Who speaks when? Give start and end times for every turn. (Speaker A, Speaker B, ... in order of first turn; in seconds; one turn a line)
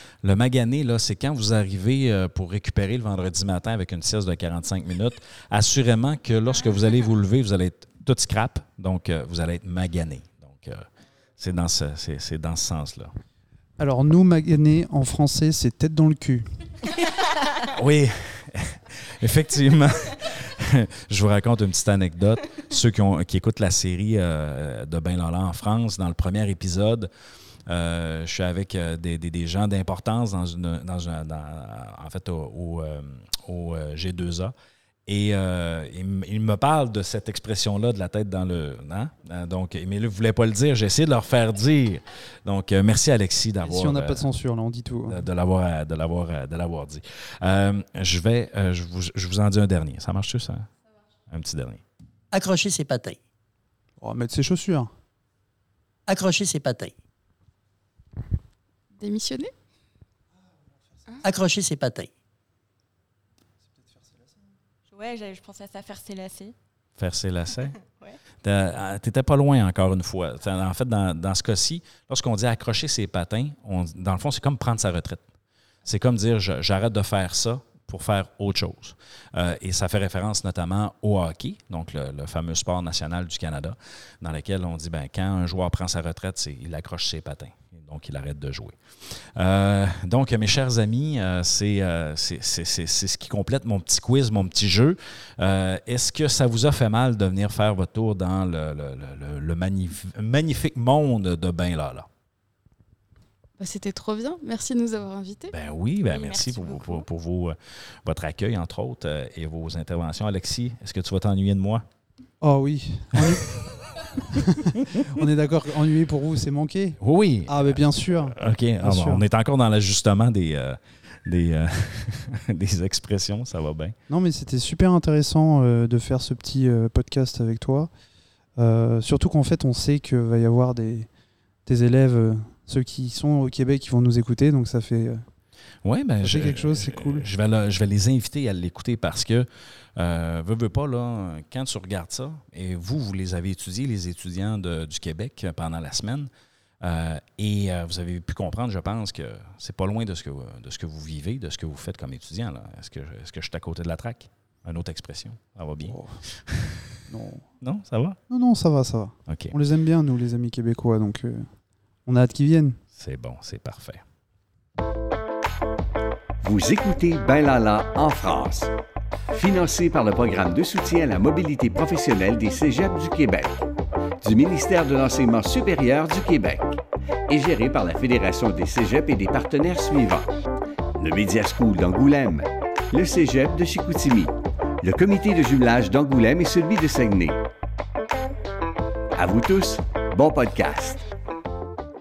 Speaker A: 0.2-10.9
Speaker A: 11.4-13.1
Speaker B: 13.8-16.5
Speaker A: 17.6-27.1
Speaker A: 27.7-34.5
Speaker A: 35.1-44.3
Speaker B: 43.6-45.2
Speaker A: 45.1-50.7
Speaker A: 51.3-51.8
Speaker C: 52.3-53.2
Speaker B: 54.0-54.9
Speaker C: 56.1-56.9
Speaker D: 59.0-59.5
Speaker C: 61.2-62.1
Speaker E: 64.9-66.5
Speaker A: 67.0-67.8
Speaker E: 67.9-68.2
Speaker A: 68.4-75.2
Speaker A: 75.8-102.1
Speaker D: 103.6-105.5
Speaker A: 105.5-111.8
Speaker E: 106.0-107.0
Speaker B: 112.4-113.6
Speaker B: 114.3-119.2
Speaker A: 117.0-124.0
Speaker B: 124.1-127.9
Speaker B: 128.6-131.1
Speaker B: 131.7-135.2
Speaker A: 135.8-146.3
Speaker B: 136.2-137.2
Speaker A: 146.8-157.0
Speaker B: 155.8-157.5
Speaker A: 157.6-158.2
Speaker B: 158.3-161.5
Speaker A: 159.3-159.6
Speaker B: 162.0-162.8
Speaker A: 162.9-164.0
Speaker F: 166.4-168.7
Speaker F: 169.3-173.7
Speaker F: 174.2-180.3
Speaker F: 181.0-187.4
Speaker F: 189.1-191.1